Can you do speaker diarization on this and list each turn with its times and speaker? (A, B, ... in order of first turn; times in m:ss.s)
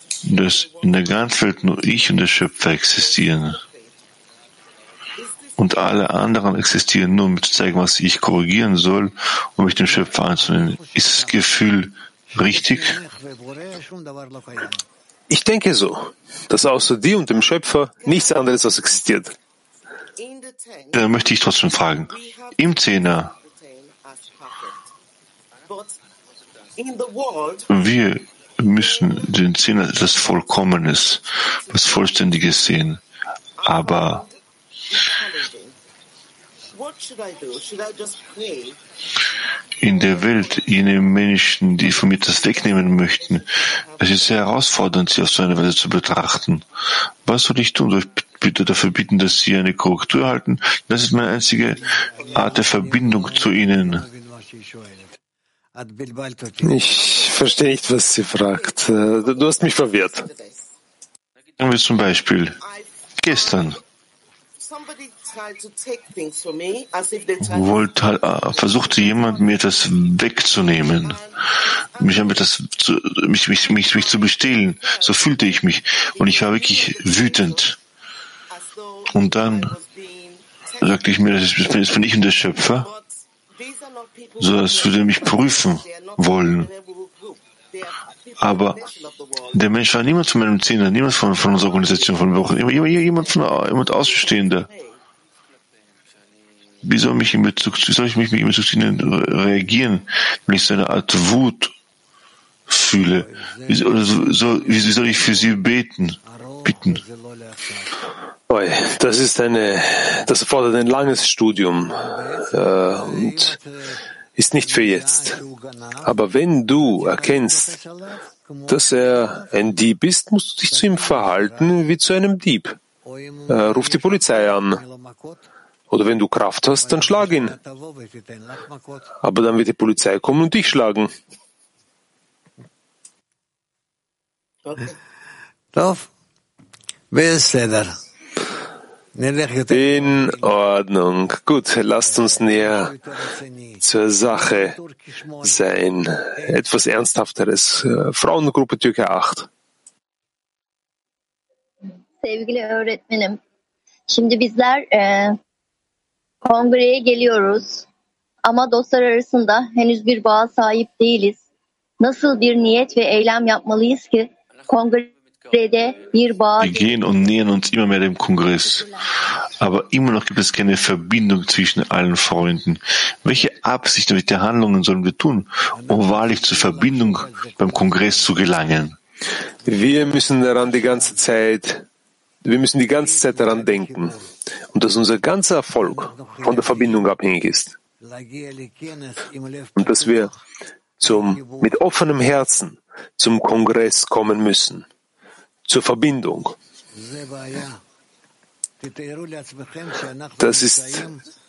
0:00.2-0:03.6 A
0:05.6-0:13.0 A
0:09.8-0:11.6 B
0:12.3-0:14.8 B
0:15.3-0:19.3 C
0:20.9-0:23.3 A
0:26.8-0:27.6 D
0:27.7-0:33.0 A
0:33.6-0:34.2 A
0:35.3-0:35.6 D
0:36.8-0:38.6 D
0:39.8-0:46.6 A
0:47.2-0:51.8 A
0:51.7-0:55.1 B
0:52.3-0:54.0 A
0:55.7-0:56.8 B
0:56.6-1:00.3 C
1:01.6-1:02.6 A
1:03.2-1:03.8 A
1:06.2-1:07.3 D
1:07.4-1:11.2 A
1:12.0-1:17.8 A
1:19.1-1:19.7 A
1:20.8-1:22.9 A
1:24.4-1:26.7 A
1:28.4-1:28.8 A
1:29.5-1:34.7 A
1:36.8-1:41.7 A
1:42.7-1:47.0 A
1:43.2-1:45.6 B
1:46.2-1:47.9 B
1:48.5-1:53.5 C
1:52.0-1:54.0 B
1:54.4-1:55.4 C
1:54.6-1:56.1 B
1:56.0-1:57.8 C
1:56.9-1:59.8 B
1:58.7-2:02.8 C
2:00.7-2:01.7 B
2:03.0-2:05.4 B
2:03.5-2:04.8 C
2:05.9-2:07.5 C
2:06.7-2:09.1 B
2:09.2-2:11.1 C
2:15.7-2:16.1 B
2:17.1-2:18.0 B
2:19.1-2:20.6 B
2:19.7-2:22.9 C
2:22.0-2:25.6 B
2:23.8-2:24.8 C
2:25.4-2:29.5 C
2:31.8-2:33.4 E
2:34.1-2:35.4 E
2:36.4-2:37.8 E
2:38.4-2:41.4 E
2:42.0-2:46.9 E
2:46.6-2:48.9 A
2:49.6-2:59.0 A
2:55.8-2:58.4 B
2:59.6-3:01.2 B
2:59.6-3:01.8 C
3:02.4-3:04.1 C
3:02.9-3:04.3 B
3:04.7-3:07.8 C
3:05.8-3:07.1 B
3:08.0-3:10.4 B
3:09.8-3:10.3 C
3:11.0-3:11.8 B
3:11.0-3:14.8 C
3:15.6-3:16.5 C
3:16.9-3:17.8 B
3:18.8-3:21.2 B
3:20.4-3:21.0 C